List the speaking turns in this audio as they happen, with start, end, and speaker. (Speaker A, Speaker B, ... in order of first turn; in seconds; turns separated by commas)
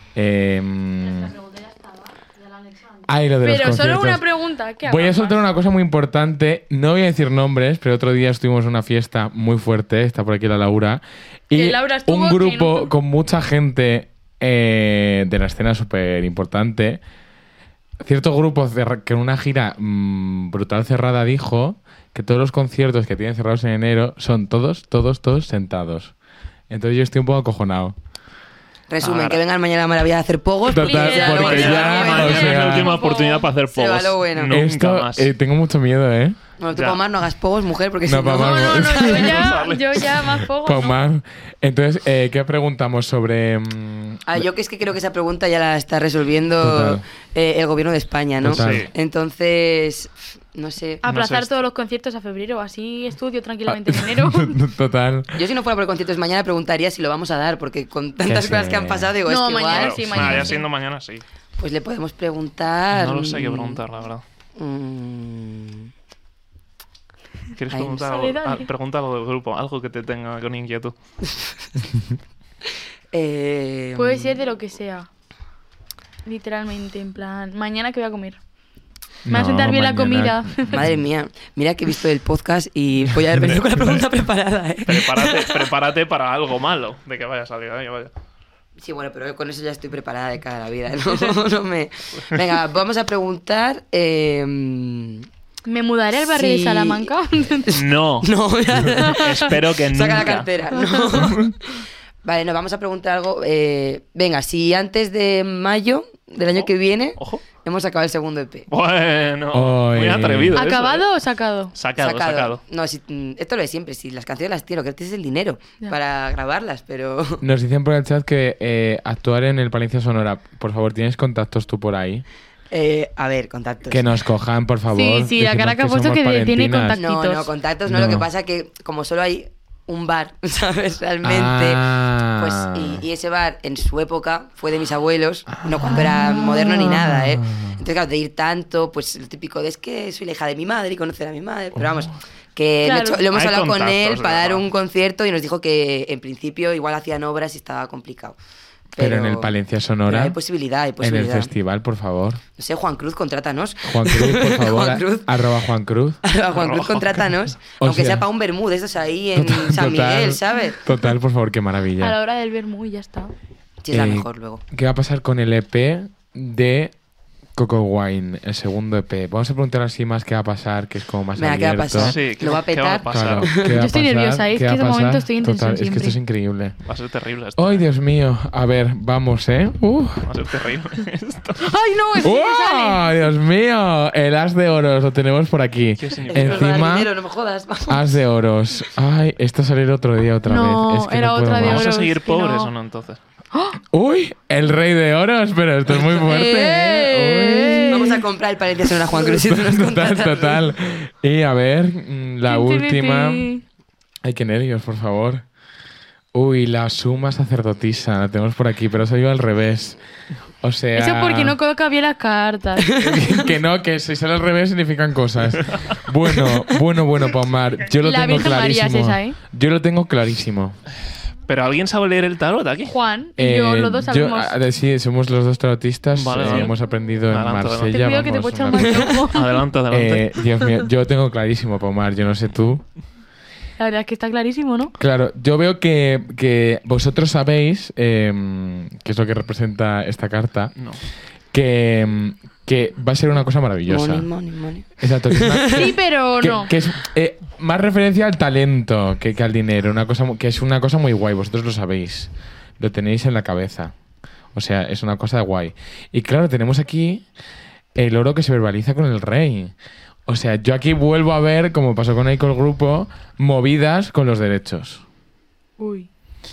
Speaker A: 0.1-1.4, Speaker B: 1.3-5.4, Speaker A: 3.0-4.2, Speaker A: 4.8-17.0, Speaker B: 11.5-12.9, Speaker A: 18.0-26.1, Speaker A: 26.7-27.9, Speaker C: 28.9-32.8, Speaker D: 29.0-29.4, Speaker A: 30.7-32.9, Speaker B: 30.8-33.5, Speaker D: 31.1-35.3, Speaker C: 33.7-34.5, Speaker A: 34.5-36.4, Speaker C: 36.6-39.4, Speaker D: 36.7-37.0, Speaker A: 38.0-39.4, Speaker B: 38.3-41.0, Speaker D: 38.9-40.1, Speaker A: 40.4-44.4, Speaker C: 44.2-51.0, Speaker A: 46.6-47.0, Speaker A: 48.4-48.9, Speaker D: 48.5-48.9, Speaker B: 51.0-54.6, Speaker D: 51.0-51.5, Speaker A: 53.6-55.4, Speaker C: 55.3-60.0, Speaker A: 58.2-59.1, Speaker B: 59.2-60.6, Speaker D: 59.6-61.2, Speaker A: 60.1-60.5, Speaker C: 61.6-63.8, Speaker D: 62.9-64.2, Speaker C: 64.6-65.9, Speaker D: 67.5-70.9, Speaker C: 67.7-68.0, Speaker B: 68.0-68.7, Speaker C: 73.1-74.4, Speaker B: 74.0-75.1, Speaker B: 76.2-78.4, Speaker A: 79.2-80.9, Speaker B: 79.3-80.8, Speaker C: 80.7-85.7, Speaker D: 83.3-84.1, Speaker D: 84.8-88.1, Speaker C: 88.8-95.2, Speaker B: 95.7-97.7, Speaker C: 96.2-97.1, Speaker C: 97.7-108.7, Speaker D: 97.7-100.5, Speaker B: 98.9-99.4, Speaker D: 106.5-107.4, Speaker D: 108.7-111.1, Speaker A: 109.5-110.6, Speaker B: 110.5-111.7, Speaker D: 111.7-112.6, Speaker C: 112.0-117.4, Speaker A: 117.4-122.2, Speaker C: 122.7-124.0, Speaker A: 123.9-127.0, Speaker B: 124.9-127.5, Speaker C: 126.9-148.4, Speaker A: 127.9-128.3, Speaker A: 131.2-133.0, Speaker A: 135.5-137.8, Speaker A: 141.8-142.1, Speaker B: 142.8-143.2, Speaker D: 143.3-144.6, Speaker C: 148.9-149.5, Speaker A: 149.0-150.4, Speaker C: 150.1-151.5, Speaker A: 151.0-152.4, Speaker C: 152.6-155.3, Speaker A: 153.8-156.2, Speaker C: 156.2-160.8, Speaker D: 156.5-157.5, Speaker A: 157.8-158.2, Speaker A: 159.3-162.2, Speaker B: 162.0-163.3, Speaker C: 163.8-164.6, Speaker A: 163.9-166.9, Speaker A: 167.6-172.2, Speaker C: 171.4-173.8, Speaker D: 171.9-173.5, Speaker A: 173.1-176.8, Speaker B: 173.7-176.2, Speaker D: 176.8-177.9, Speaker A: 177.6-180.3, Speaker D: 180.2-181.8, Speaker B: 181.6-183.2, Speaker A: 182.2-187.1, Speaker D: 186.0-186.8, Speaker C: 186.3-188.0, Speaker A: 187.9-191.9, Speaker B: 190.5-192.7, Speaker D: 191.6-193.2, Speaker B: 193.5-193.8, Speaker A: 193.9-197.9, Speaker C: 195.9-200.6, Speaker B: 196.3-198.2, Speaker A: 199.1-203.5, Speaker B: 202.4-203.6, Speaker A: 204.2-205.4, Speaker A: 206.3-210.0, Speaker A: 210.6-211.6, Speaker B: 210.9-213.4, Speaker A: 212.9-220.8, Speaker B: 218.0-219.4, Speaker D: 221.5-223.0, Speaker B: 222.8-224.5, Speaker A: 223.4-229.2, Speaker D: 226.1-226.7, Speaker B: 226.4-226.7, Speaker D: 227.3-228.0, Speaker B: 227.9-229.6, Speaker D: 229.2-230.4, Speaker A: 229.9-232.8, Speaker B: 233.8-234.9, Speaker A: 235.0-240.8, Speaker D: 240.8-241.0, Speaker A: 241.5-244.3, Speaker C: 243.9-245.9, Speaker A: 245.0-253.9, Speaker B: 245.7-246.7, Speaker A: 254.5-257.2, Speaker A: 257.9-259.7, Speaker A: 260.3-265.0, Speaker B: 265.8-266.1